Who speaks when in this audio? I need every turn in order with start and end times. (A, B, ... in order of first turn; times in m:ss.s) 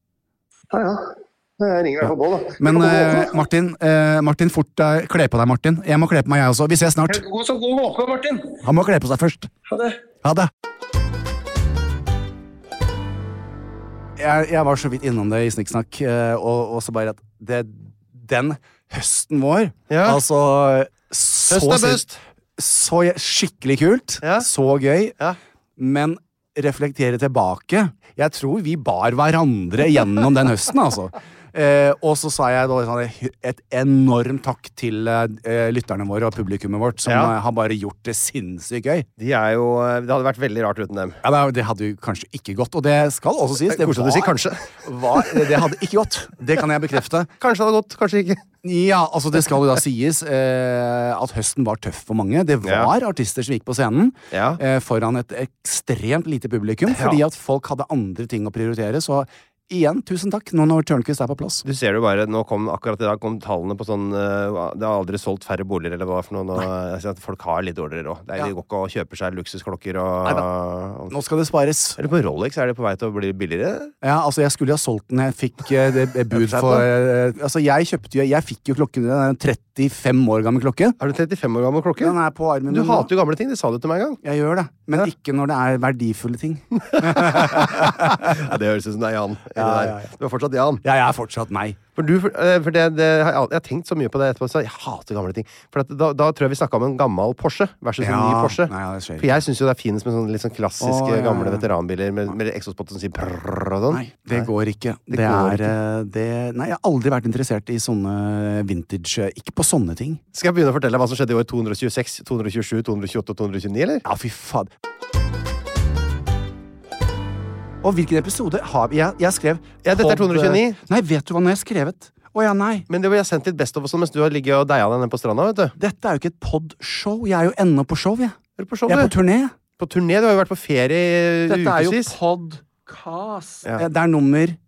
0:00.7-0:03.3 A
0:02.6-0:07.2 B
0:07.1-0:08.6 A
0:08.6-0:09.5 B
0:09.7-0:10.0 A
0:10.2-0:10.5 B
0:14.2-0:22.0 B
0:19.9-0:20.2 C
0:21.5-0:22.2 C
0:22.6-0:25.1 B
0:24.2-0:24.5 C
0:25.8-0:39.1 B
0:37.0-0:37.3 C
0:39.2-0:41.2 C
0:41.2-0:47.3 B
0:43.7-0:45.7 C
0:47.4-0:48.4 C
0:48.6-1:01.6 B
0:52.6-0:52.9 C
0:54.3-0:54.6 C
0:56.9-0:57.2 C
1:01.6-1:11.1 C
1:11.1-1:12.0 B
1:12.0-1:13.9 C
1:14.0-1:21.0 B
1:16.3-1:16.9 C
1:21.0-1:22.2 C
1:22.0-1:23.1 B
1:22.7-1:24.2 C
1:24.2-1:28.4 B
1:26.8-1:30.8 C
1:29.6-1:30.1 B
1:30.8-1:31.8 B
1:32.0-1:44.5 C
1:38.0-1:39.4 B
1:40.8-1:41.7 B
1:43.9-1:50.2 B
1:45.1-1:45.7 C
1:50.3-1:54.0 C
1:54.0-1:54.7 B
1:57.8-2:02.9 B
1:59.8-2:00.8 C
2:02.9-2:05.7 C
2:05.8-2:09.5 B
2:08.6-2:09.1 C
2:09.8-2:12.1 C
2:11.5-2:14.6 B